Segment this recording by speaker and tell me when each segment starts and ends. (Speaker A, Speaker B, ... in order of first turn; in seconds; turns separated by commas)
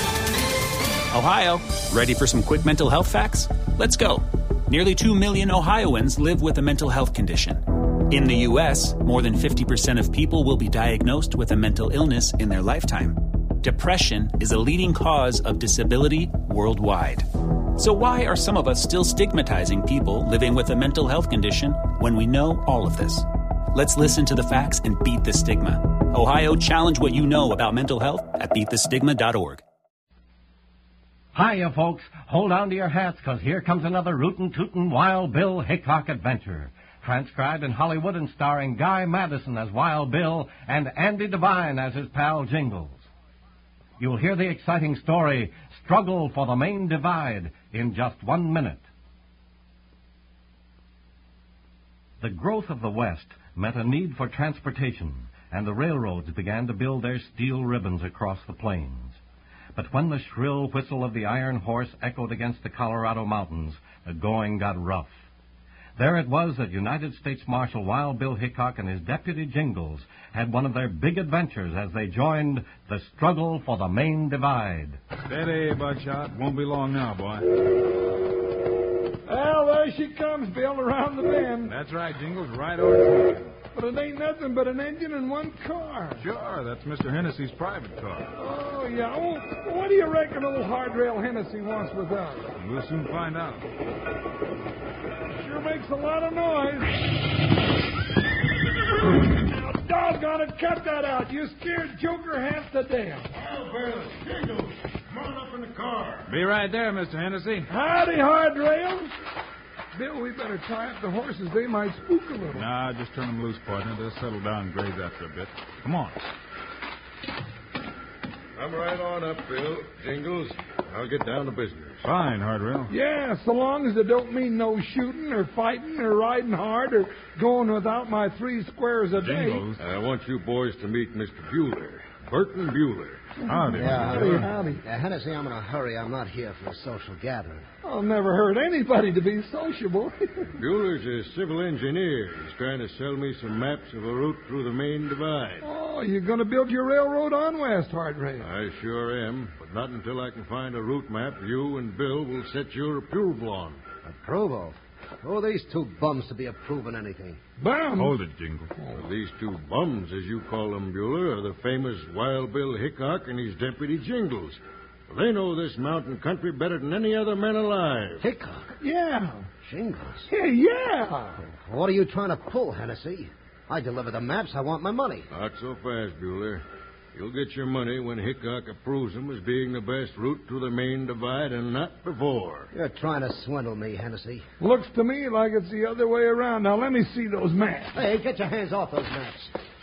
Speaker A: 1.1-29.6, Speaker B: 31.4-43.1, Speaker B: 44.0-48.8, Speaker B: 52.2-59.2, Speaker B: 59.8-65.1, Speaker B: 66.0-75.0, Speaker C: 75.3-77.5, Speaker D: 79.3-81.7, Speaker C: 81.7-83.5, Speaker D: 83.7-86.2, Speaker C: 86.2-88.3, Speaker D: 88.4-92.5, Speaker C: 92.6-93.7, Speaker D: 95.4-97.0, Speaker D: 99.1-103.3, Speaker E: 103.3-106.3, Speaker C: 106.3-107.7, Speaker D: 107.7-109.1, Speaker D: 110.0-112.7, Speaker C: 112.5-116.2, Speaker E: 118.6-122.0, Speaker C: 122.0-122.9, Speaker D: 122.9-129.7, Speaker C: 129.1-129.8, Speaker E: 129.8-133.2, Speaker D: 133.4-134.8, Speaker C: 133.5-134.5, Speaker F: 133.8-137.7, Speaker D: 137.8-140.5, Speaker E: 140.6-145.7, Speaker D: 145.6-148.5, Speaker E: 148.4-153.8, Speaker F: 154.0-157.4, Speaker D: 157.6-158.2, Speaker C: 158.0-158.7, Speaker E: 158.9-168.2, Speaker F: 168.2-168.7, Speaker D: 168.8-169.5, Speaker F: 169.6-170.3, Speaker D: 170.3-171.4, Speaker F: 171.4-175.3, Speaker E: 175.3-176.6, Speaker E: 177.1-182.7, Speaker F: 182.7-184.5, Speaker D: 184.6-187.9, Speaker F: 187.9-189.5